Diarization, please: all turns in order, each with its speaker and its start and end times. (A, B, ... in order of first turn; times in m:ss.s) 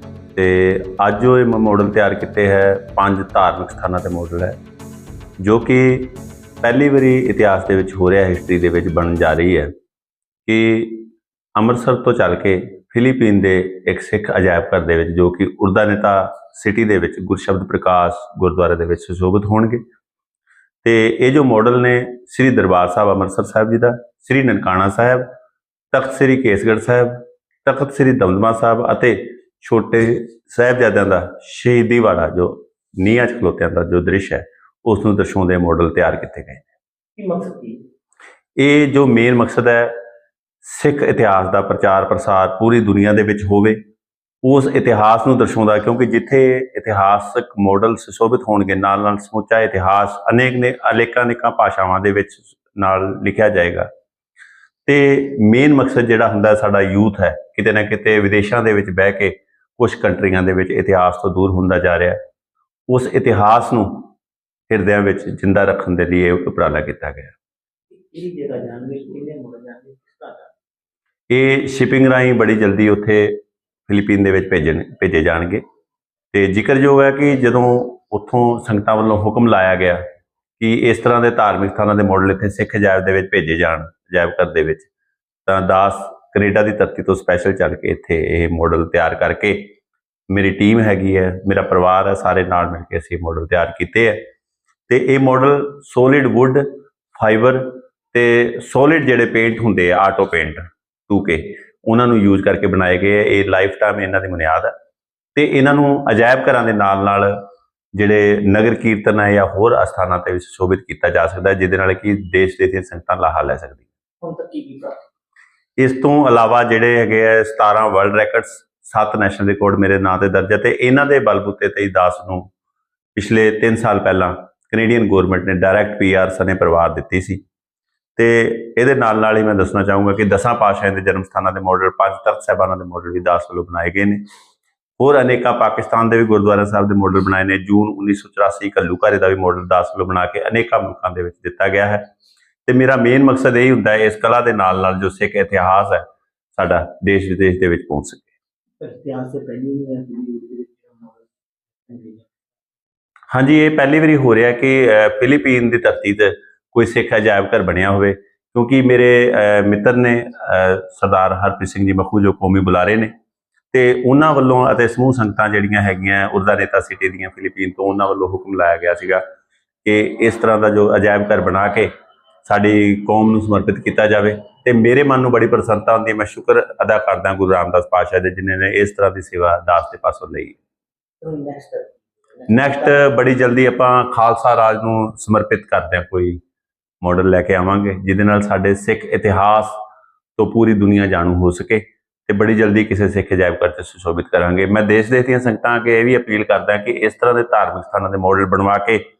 0:00.3-0:04.6 A
0:05.4-0:09.7 A
0:10.4-0:19.8 A
0:20.8-0:25.2 A
0:25.9-0:36.6 A
0:37.2-0:37.8 B
0:38.6-0:39.9 A
0:40.6-0:43.8 A
0:44.4-0:53.9 A
0:54.8-1:02.2 A
1:02.9-1:04.1 A
1:04.7-1:07.3 A
1:08.1-1:10.5 B
1:11.3-1:15.6 A
1:16.3-1:20.0 A
1:20.6-1:24.9 A
1:25.4-1:29.7 A
1:30.3-1:34.3 A
1:34.9-1:44.7 A
1:45.3-1:47.4 A
1:47.9-1:53.8 A
1:54.2-1:55.0 B
1:55.8-2:02.5 A
2:03.2-2:07.4 A
2:08.2-2:14.2 A
2:15.0-2:22.0 A
2:22.6-2:28.3 A
2:28.8-2:31.3 B
2:31.8-2:32.3 B
2:33.3-2:43.1 A
2:43.7-2:49.2 A
2:49.8-2:51.9 A
2:52.4-3:00.6 A
3:01.2-3:03.0 B
3:02.5-3:06.4 A
3:07.0-3:09.8 A
3:10.4-3:19.0 A